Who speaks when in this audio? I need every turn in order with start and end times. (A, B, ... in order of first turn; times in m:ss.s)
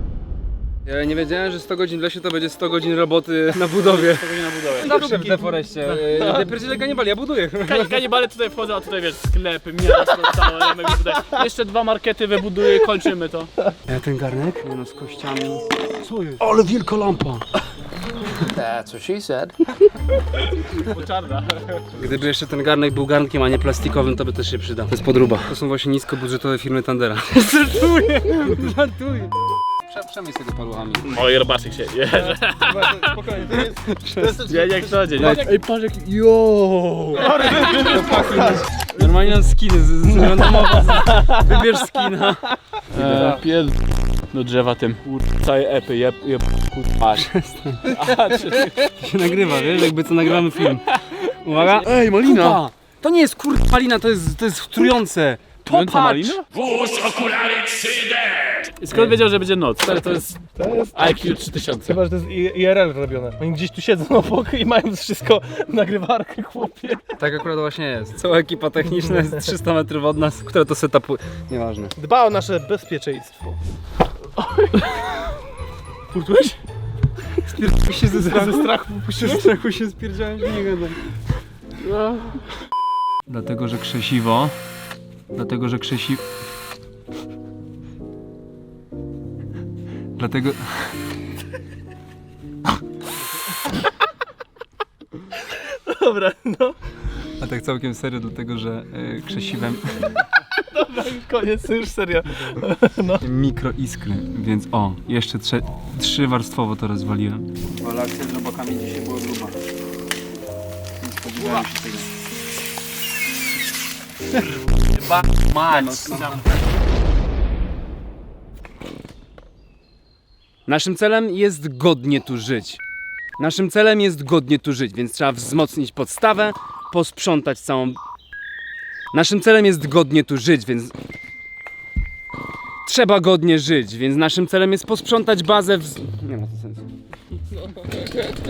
0:00.8-0:08.0 A
0:03.8-0:06.3 B
0:06.2-0:06.5 C
0:07.7-0:13.5 B
0:13.9-0:17.4 A
0:18.4-0:19.5 A
0:20.8-0:22.1 B
0:21.9-0:31.1 A
0:31.0-0:33.1 B
0:32.1-0:35.5 C
0:33.9-0:34.3 A
0:34.4-0:37.8 B
0:35.2-0:35.5 A
0:37.1-0:38.7 C
0:37.4-0:43.4 A
0:40.3-0:41.3 B
0:42.9-0:47.3 B
0:47.1-0:47.9 A
0:47.8-0:48.9 B
0:48.8-0:56.4 A
0:51.6-0:52.6 B
0:55.7-0:58.1 B
0:58.8-1:00.4 B
1:00.6-1:07.1 C
1:01.0-1:02.0 B
1:07.2-1:11.9 A
1:12.0-1:13.6 C
1:14.4-1:14.9 B
1:16.1-1:16.6 C
1:17.4-1:21.0 A
1:17.9-1:19.5 C
1:21.8-1:22.5 B
1:23.3-1:24.6 A
1:25.3-1:26.2 A
1:30.2-1:30.9 A
1:35.5-1:36.8 C
1:37.4-1:40.1 A
1:40.6-1:43.2 C
1:43.2-1:49.6 A
1:51.0-1:52.1 A
1:55.0-1:56.4 B
1:55.5-1:56.4 A
2:00.7-2:02.8 A
2:03.4-2:08.0 A
2:09.1-2:11.0 A
2:12.9-2:16.9 A